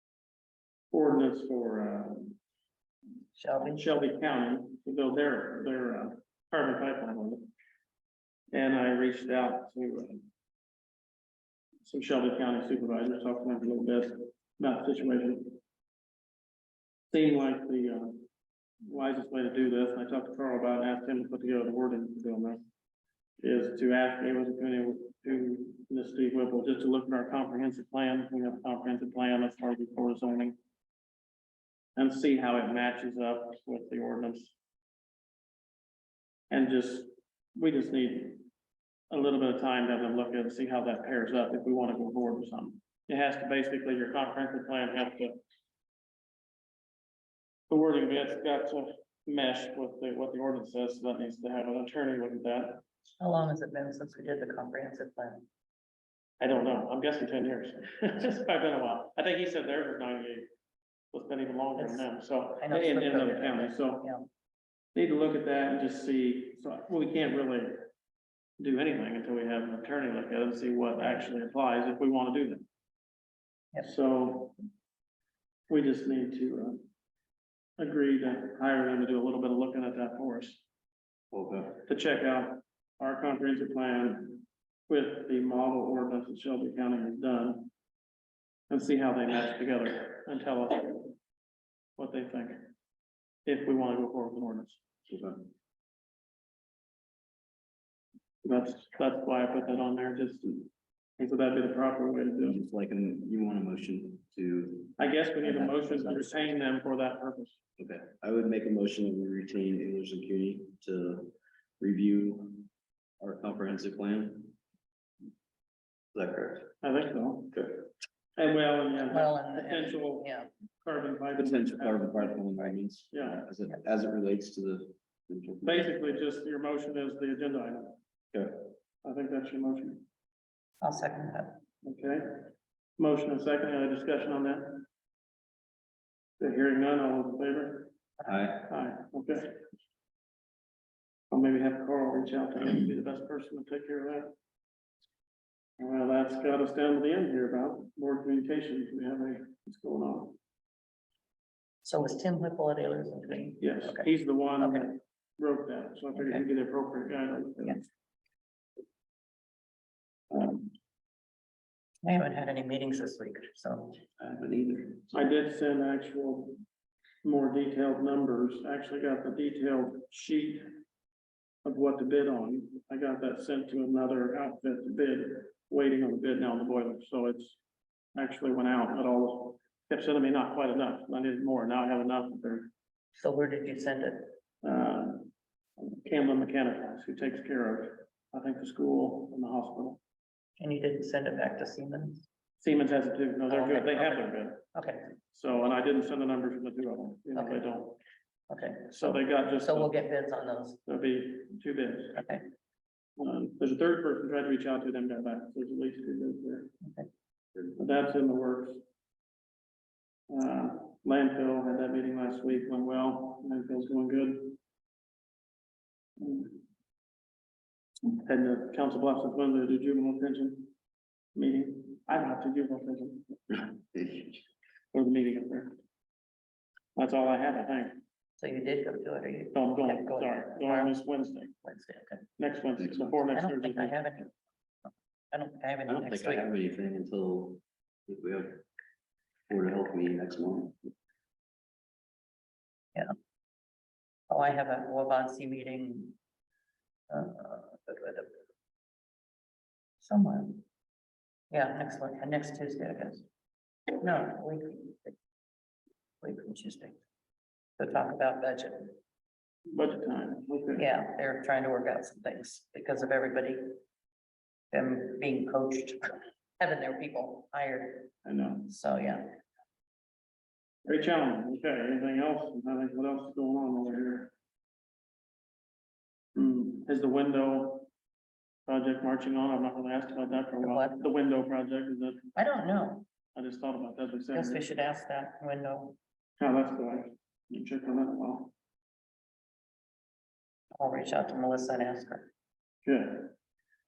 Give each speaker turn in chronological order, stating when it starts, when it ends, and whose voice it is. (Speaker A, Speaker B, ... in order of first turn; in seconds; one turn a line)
Speaker A: 0.9-2.4
Speaker B: 3.4-4.0
Speaker A: 3.6-7.5
Speaker A: 8.5-10.3
Speaker A: 11.8-15.6
Speaker A: 17.1-18.3
Speaker A: 18.8-22.6
Speaker A: 23.4-30.6
Speaker A: 32.0-34.5
Speaker A: 36.5-38.5
Speaker A: 39.1-45.4
Speaker A: 47.7-52.8
Speaker B: 53.2-55.5
Speaker A: 56.4-60.5
Speaker A: 61.1-64.1
Speaker B: 61.8-64.2
Speaker A: 65.0-67.8
Speaker A: 68.6-72.7
Speaker A: 73.8-74.6
Speaker A: 75.7-76.8
Speaker A: 77.8-80.6
Speaker C: 81.3-81.7
Speaker A: 81.9-87.7
Speaker A: 88.7-91.1
Speaker A: 92.0-92.7
Speaker A: 93.5-94.8
Speaker C: 95.2-95.5
Speaker A: 98.4-102.6
Speaker C: 102.5-106.4
Speaker A: 105.0-107.6
Speaker C: 107.8-112.7
Speaker C: 113.2-114.6
Speaker C: 116.1-116.7
Speaker A: 116.8-117.6
Speaker C: 117.5-117.8
Speaker A: 118.4-120.3
Speaker B: 119.1-120.5
Speaker A: 120.8-123.4
Speaker C: 121.4-125.6
Speaker A: 125.6-128.0
Speaker C: 128.3-128.6
Speaker A: 129.0-130.0
Speaker B: 130.8-131.6
Speaker A: 131.8-134.9
Speaker A: 136.4-137.9
Speaker C: 138.3-138.7
Speaker A: 138.7-139.6
Speaker A: 141.3-144.3
Speaker A: 145.8-150.4
Speaker B: 151.8-154.9
Speaker A: 153.6-157.9
Speaker B: 156.2-156.5
Speaker A: 160.3-160.7
Speaker B: 162.0-164.0
Speaker C: 164.2-165.0
Speaker A: 165.1-166.6
Speaker A: 167.2-170.8
Speaker A: 171.6-177.6
Speaker A: 178.2-182.7
Speaker B: 183.2-184.3
Speaker A: 184.6-190.0
Speaker B: 190.6-192.2
Speaker A: 192.6-194.6
Speaker B: 193.5-195.1
Speaker A: 195.3-198.0
Speaker B: 197.3-197.7
Speaker B: 198.5-200.8
Speaker A: 198.9-200.0
Speaker A: 200.8-202.2
Speaker B: 202.2-202.4
Speaker A: 203.2-206.7
Speaker A: 207.8-208.8
Speaker A: 210.3-214.6
Speaker A: 216.2-216.6
Speaker A: 218.1-220.7
Speaker A: 221.3-224.3
Speaker A: 224.9-225.8
Speaker A: 227.0-228.0
Speaker B: 228.4-231.1
Speaker A: 229.5-231.5
Speaker B: 231.6-232.2
Speaker A: 232.4-234.0
Speaker B: 233.3-234.3
Speaker B: 234.8-236.5
Speaker C: 235.9-238.6
Speaker C: 239.5-240.9
Speaker B: 244.3-246.2
Speaker B: 247.1-248.3
Speaker B: 250.0-250.6
Speaker B: 251.5-253.2
Speaker B: 254.0-255.1
Speaker B: 256.2-257.0
Speaker B: 257.8-259.0
Speaker A: 259.7-260.9
Speaker B: 260.8-263.7
Speaker B: 264.7-269.4
Speaker A: 268.2-268.7
Speaker A: 270.9-274.3
Speaker A: 276.4-277.9
Speaker A: 278.7-282.3
Speaker B: 280.6-281.1
Speaker B: 282.4-283.1
Speaker A: 283.3-284.6
Speaker B: 284.3-286.0
Speaker A: 286.4-288.5
Speaker B: 290.8-292.3
Speaker A: 292.9-293.3